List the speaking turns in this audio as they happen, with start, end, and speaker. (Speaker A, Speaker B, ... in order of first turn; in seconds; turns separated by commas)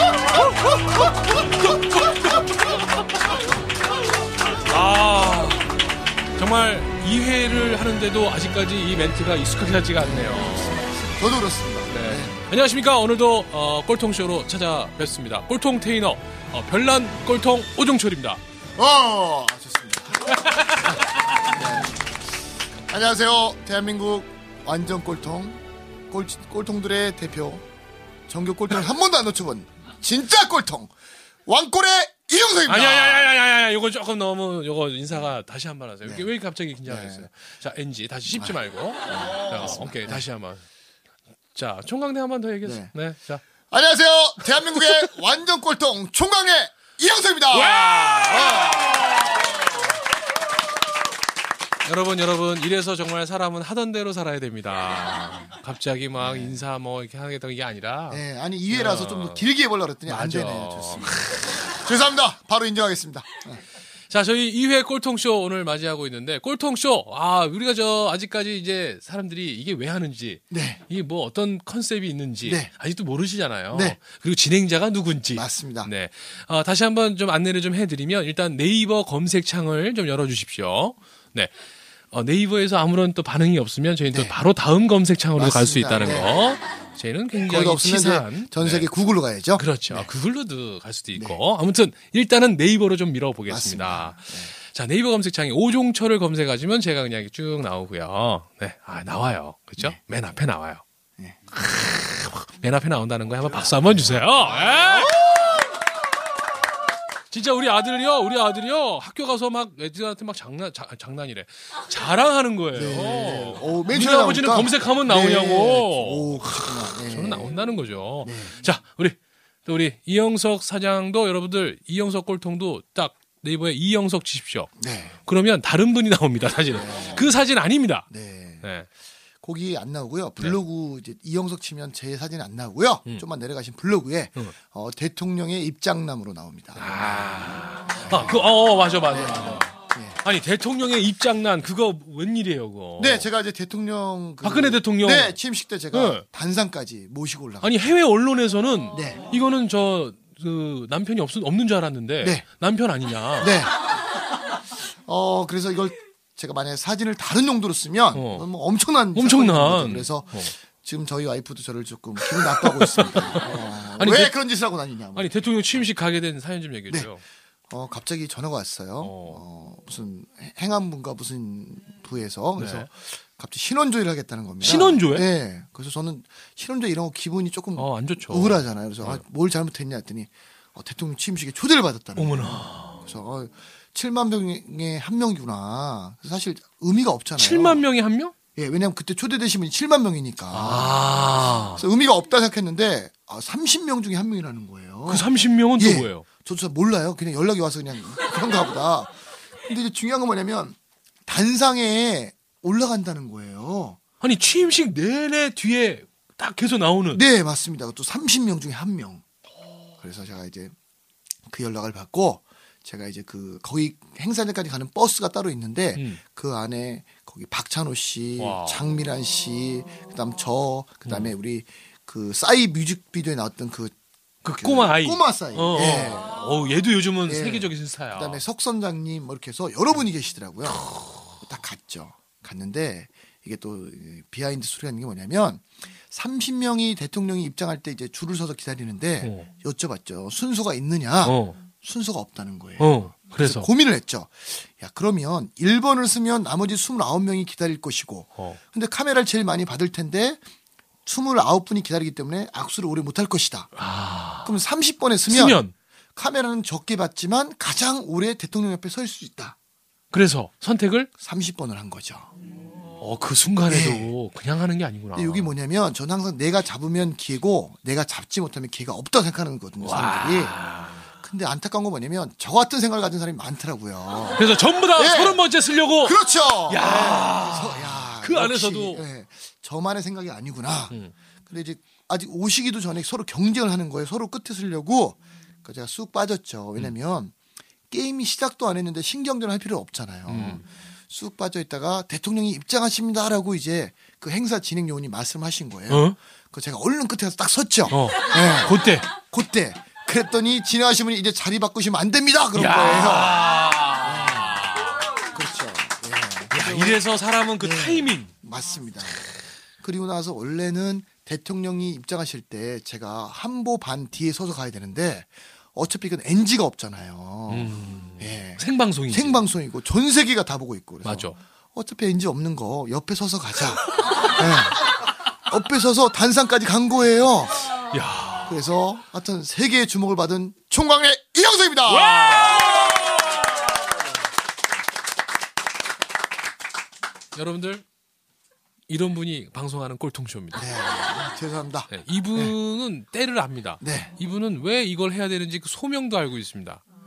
Speaker A: 1.4-2.8, Speaker A: 4.6-5.7, Speaker A: 6.4-10.8, Speaker B: 11.0-12.4, Speaker A: 11.9-18.4, Speaker B: 18.8-20.5, Speaker A: 20.4-21.0, Speaker B: 21.5-22.0, Speaker B: 22.9-27.6, Speaker B: 28.3-30.9, Speaker B: 31.5-33.3, Speaker A: 32.7-40.6, Speaker B: 36.9-37.3, Speaker B: 38.3-38.6, Speaker B: 39.1-40.2, Speaker A: 41.5-43.4, Speaker B: 42.6-42.9, Speaker B: 43.7-49.2, Speaker A: 47.5-49.1, Speaker A: 51.9-59.5, Speaker B: 56.2-56.6, Speaker B: 58.1-63.6, Speaker A: 60.1-61.5, Speaker A: 64.1-81.5, Speaker B: 70.5-70.8, Speaker B: 72.5-72.7, Speaker B: 73.7-74.0, Speaker B: 75.3-75.9, Speaker A: 82.1-88.9, Speaker B: 84.1-84.4, Speaker B: 85.4-86.3, Speaker B: 87.5-90.1, Speaker A: 89.5-100.8, Speaker B: 93.5-94.5, Speaker A: 101.5-105.4, Speaker B: 103.9-105.6, Speaker A: 107.3-124.8, Speaker B: 112.8-117.5, Speaker B: 118.2-118.6, Speaker B: 124.8-125.2, Speaker A: 125.3-128.1, Speaker B: 126.7-127.3, Speaker B: 128.1-128.7, Speaker A: 128.6-128.9, Speaker B: 129.4-137.1, Speaker A: 136.8-139.7, Speaker B: 138.1-138.5, Speaker B: 139.1-140.2, Speaker A: 140.2-143.3, Speaker B: 143.0-147.9, Speaker A: 144.4-145.4, Speaker A: 145.9-146.2, Speaker A: 147.6-153.6, Speaker B: 148.9-149.2, Speaker B: 153.4-153.7, Speaker B: 154.9-165.3, Speaker A: 158.1-158.5, Speaker A: 159.1-160.5, Speaker A: 162.3-164.4, Speaker A: 165.2-167.2, Speaker B: 167.7-187.8, Speaker A: 169.0-169.4, Speaker A: 172.6-172.9, Speaker A: 174.6-175.3, Speaker A: 177.8-179.2, Speaker A: 182.2-183.0, Speaker A: 187.4-188.3, Speaker B: 188.6-204.0, Speaker A: 190.5-191.8, Speaker A: 195.1-196.3, Speaker A: 204.2-207.2, Speaker B: 207.1-209.2, Speaker B: 210.0-210.8, Speaker B: 211.5-223.9, Speaker A: 215.9-216.2, Speaker A: 218.4-218.8, Speaker A: 221.1-221.3, Speaker A: 224.4-228.4, Speaker B: 224.6-226.4, Speaker B: 227.3-230.9, Speaker A: 230.7-231.2, Speaker B: 231.4-250.4, Speaker A: 239.2-239.5, Speaker A: 241.2-241.6, Speaker A: 242.8-243.7, Speaker B: 251.1-253.7, Speaker A: 253.8-254.5, Speaker B: 254.4-255.6, Speaker A: 255.3-255.7, Speaker B: 256.2-259.6, Speaker A: 260.1-261.1, Speaker B: 261.2-262.3, Speaker A: 263.0-265.5, Speaker B: 263.7-264.1, Speaker B: 265.1-270.6, Speaker A: 269.8-271.1, Speaker B: 271.2-275.4, Speaker A: 274.4-279.1, Speaker B: 276.0-281.0, Speaker B: 281.5-287.4, Speaker B: 287.9-303.5, Speaker A: 290.3-290.6, Speaker A: 295.9-296.2, Speaker A: 297.9-299.1, Speaker A: 302.6-305.1, Speaker B: 304.0-304.6, Speaker B: 305.3-307.0, Speaker A: 306.5-308.3, Speaker B: 307.6-324.9, Speaker A: 317.5-319.5, Speaker A: 321.0-321.4, Speaker B: 325.5-327.8, Speaker A: 327.9-328.6, Speaker B: 328.4-332.6, Speaker A: 331.9-333.7, Speaker A: 337.4-337.8, Speaker A: 338.9-340.7, Speaker B: 340.5-342.5, Speaker A: 341.9-346.8, Speaker B: 343.8-344.1